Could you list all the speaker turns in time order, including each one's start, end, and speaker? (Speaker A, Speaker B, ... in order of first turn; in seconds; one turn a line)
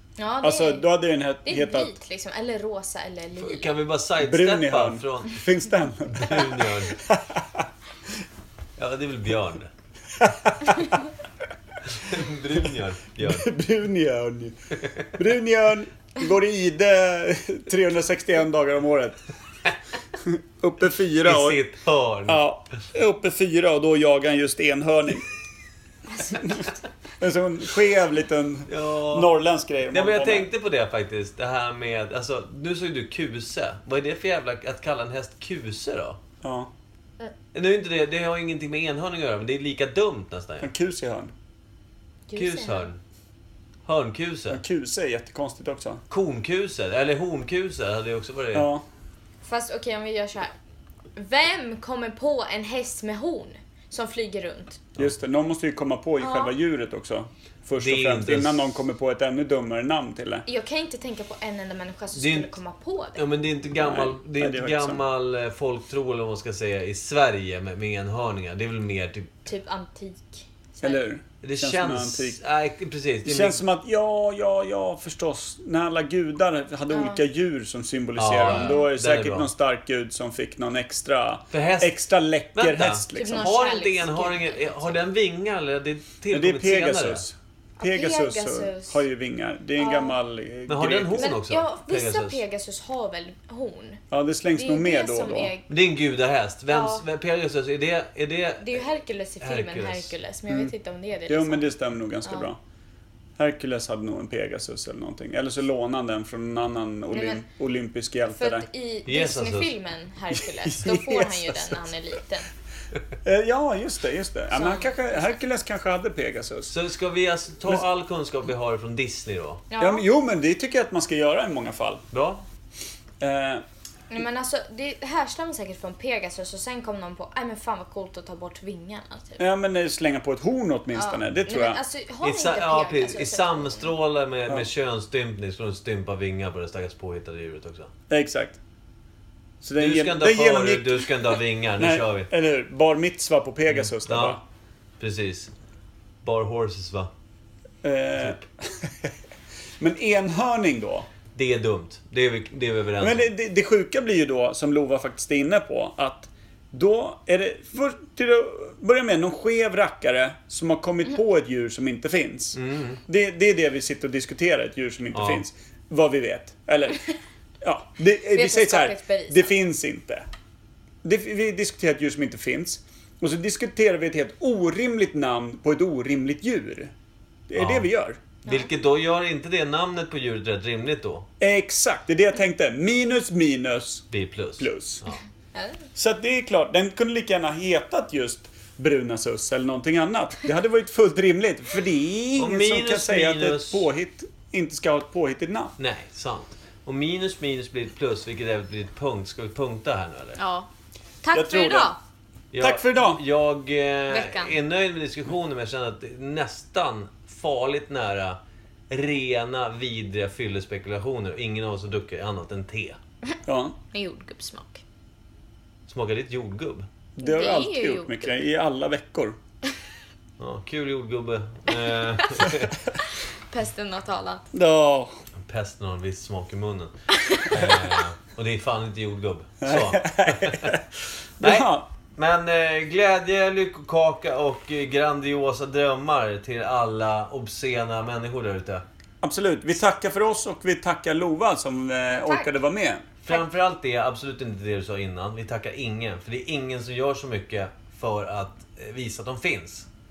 Speaker A: 0.2-0.8
Speaker B: 0.4-1.9
Speaker A: 1.4-3.7
Speaker C: 3.4-5.4
Speaker B: 4.2-7.7
Speaker C: 6.1-7.0
Speaker C: 8.8-9.7
Speaker B: 10.2-11.0
Speaker C: 11.8-13.5
Speaker B: 13.2-14.5
Speaker C: 14.8-15.1
Speaker B: 15.1-19.2
Speaker B: 20.2-21.6
Speaker C: 21.2-22.4
Speaker B: 22.3-25.2
Speaker A: 26.1-26.7
Speaker B: 26.3-30.5
Speaker C: 28.7-29.3
Speaker C: 29.9-36.2
Speaker B: 36.4-36.7
Speaker C: 37.5-40.7
Speaker B: 40.6-41.3
Speaker A: 42.3-42.9
Speaker C: 42.4-43.0
Speaker C: 43.8-44.6
Speaker B: 44.5-46.0
Speaker C: 46.1-48.7
Speaker B: 48.5-48.8
Speaker A: 49.4-50.5
Speaker A: 51.1-54.8
Speaker B: 55.0-60.4
Speaker A: 56.2-56.5
Speaker C: 57.8-58.7
Speaker A: 60.5-63.2
Speaker C: 62.1-62.5
Speaker C: 63.1-69.3
Speaker B: 63.8-65.0
Speaker A: 69.5-71.0
Speaker B: 70.8-72.4
Speaker C: 71.4-73.6
Speaker B: 73.2-83.5
Speaker A: 76.9-77.2
Speaker C: 78.2-79.5
Speaker A: 78.5-78.8
Speaker C: 81.5-81.9
Speaker C: 82.5-87.2
Speaker A: 83.2-85.0
Speaker B: 86.3-91.3
Speaker A: 87.8-89.0
Speaker A: 89.8-90.2
Speaker C: 90.7-92.4
Speaker A: 91.2-94.0
Speaker B: 94.1-95.5
Speaker A: 94.5-95.7
Speaker C: 95.7-98.8
Speaker A: 96.7-97.0
Speaker A: 98.6-101.7
Speaker C: 99.4-100.1
Speaker B: 100.5-100.7
Speaker B: 101.3-102.6
Speaker A: 102.2-102.5
Speaker B: 103.4-108.7
Speaker A: 107.1-107.4
Speaker A: 108.3-112.5
Speaker C: 109.1-109.7
Speaker B: 110.3-111.8
Speaker B: 113.2-116.7
Speaker A: 114.5-115.3
Speaker C: 116.7-119.6
Speaker A: 119.7-120.0
Speaker B: 119.8-122.0
Speaker C: 122.1-122.4
Speaker B: 123.2-123.6
Speaker A: 124.1-129.4
Speaker B: 129.4-131.8
Speaker A: 130.9-133.9
Speaker C: 132.2-137.9
Speaker B: 138.1-138.6
Speaker B: 139.6-141.1
Speaker C: 139.8-142.3
Speaker B: 141.8-144.4
Speaker C: 143.7-144.4
Speaker C: 145.0-145.5
Speaker C: 146.2-147.1
Speaker B: 147.8-149.1
Speaker B: 149.8-151.1
Speaker C: 151.3-153.3
Speaker B: 153.0-167.0
Speaker C: 162.5-163.0
Speaker C: 165.1-165.4
Speaker B: 167.6-170.2
Speaker A: 168.3-169.5
Speaker B: 171.0-176.9
Speaker B: 177.5-178.2
Speaker C: 177.6-177.9
Speaker A: 178.4-178.7
Speaker C: 178.4-181.2
Speaker B: 181.4-184.1
Speaker C: 184.1-185.2
Speaker B: 184.6-185.0
Speaker A: 185.5-185.8
Speaker B: 185.9-195.7
Speaker C: 192.4-193.8
Speaker C: 195.8-200.4
Speaker A: 200.4-200.7
Speaker A: 201.2-202.0
Speaker B: 201.3-201.9
Speaker C: 202.5-208.4
Speaker B: 202.6-203.2
Speaker A: 204.1-204.6
Speaker C: 208.9-213.0
Speaker B: 213.4-213.7
Speaker A: 213.9-214.8
Speaker C: 215.9-216.9
Speaker B: 217.2-219.4
Speaker A: 217.2-218.2
Speaker C: 220.4-222.8
Speaker A: 223.0-224.5
Speaker B: 224.5-225.1
Speaker C: 225.4-230.7
Speaker A: 227.2-227.5
Speaker B: 229.6-230.8
Speaker B: 231.4-231.8
Speaker C: 231.4-238.8
Speaker B: 239.2-243.1
Speaker A: 242.1-242.5
Speaker C: 243.2-249.9